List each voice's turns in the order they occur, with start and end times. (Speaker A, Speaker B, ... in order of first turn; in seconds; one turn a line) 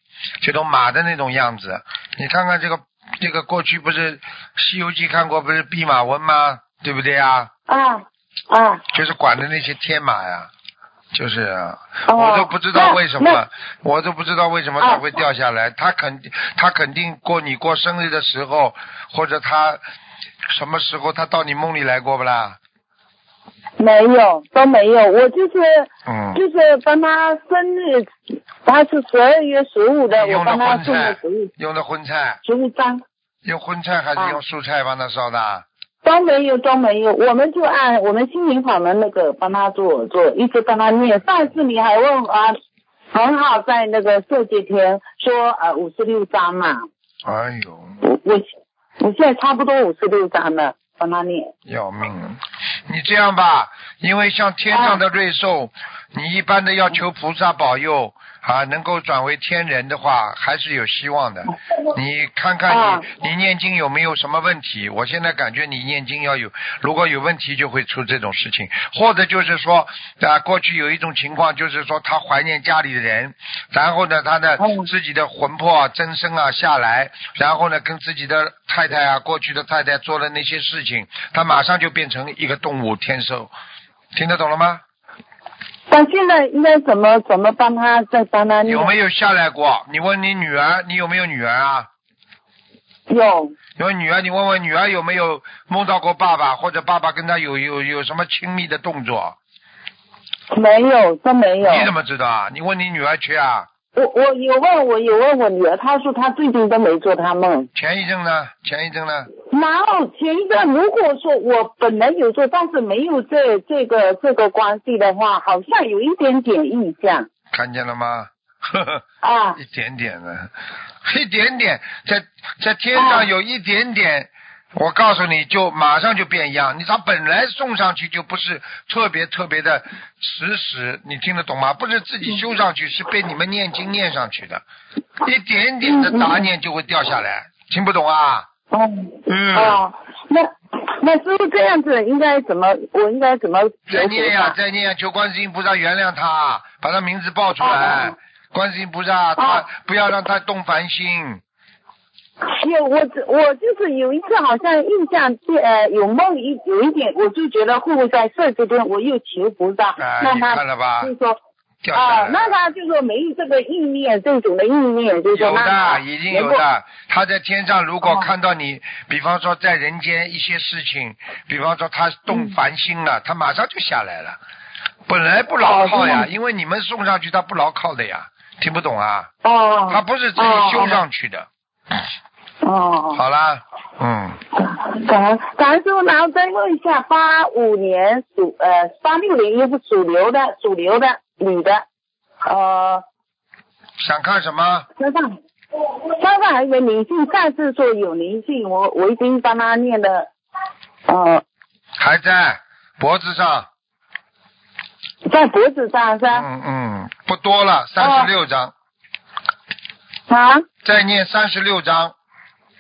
Speaker A: 0.4-7.5
Speaker B: 7.7-8.8
Speaker A: 8.9-10.5
Speaker A: 11.1-19.8
Speaker B: 12.1-13.4
Speaker A: 20.5-22.6
Speaker B: 23.8-28.1
Speaker A: 26.1-26.4
Speaker B: 28.6-31.5
Speaker A: 30.1-32.4
Speaker B: 32.4-33.0
Speaker A: 33.4-35.6
Speaker B: 36.0-42.6
Speaker B: 43.1-46.9
Speaker A: 47.2-48.0
Speaker B: 48.0-48.4
Speaker B: 49.0-51.5
Speaker A: 51.6-83.5
Speaker B: 54.7-55.0
Speaker B: 62.7-63.1
Speaker B: 74.6-74.9
Speaker A: 84.1-84.8
Speaker B: 85.9-88.9
Speaker A: 88.6-91.9
Speaker B: 93.1-93.5
Speaker A: 93.8-99.4
Speaker B: 100.5-101.9
Speaker A: 101.6-103.7
Speaker B: 103.9-107.7
Speaker A: 107.7-109.3
Speaker B: 109.5-117.3
Speaker A: 117.5-119.0
Speaker B: 119.2-119.6
Speaker A: 119.5-120.5
Speaker A: 121.0-134.6
Speaker B: 122.9-123.2
Speaker A: 135.2-138.5
Speaker B: 135.8-136.5
Speaker B: 138.7-144.5
Speaker A: 139.3-139.8
Speaker A: 143.9-151.4
Speaker B: 147.6-148.1
Speaker B: 149.4-149.6
Speaker B: 152.4-161.4
Speaker A: 160.0-161.1
Speaker A: 161.8-162.6
Speaker B: 161.9-166.6
Speaker A: 165.3-174.4
Speaker A: 175.1-179.3
Speaker B: 175.6-176.3
Speaker B: 179.4-181.0
Speaker A: 179.9-181.5
Speaker B: 182.6-183.2
Speaker A: 183.1-184.4
Speaker B: 184.6-191.8
Speaker B: 192.4-193.0
Speaker A: 194.0-194.9
Speaker B: 195.0-195.4
Speaker B: 196.2-200.3
Speaker B: 201.1-201.4
Speaker A: 202.0-203.7
Speaker B: 205.2-206.4
Speaker A: 206.3-208.7
Speaker B: 208.0-208.3
Speaker B: 210.3-210.7
Speaker A: 210.8-212.1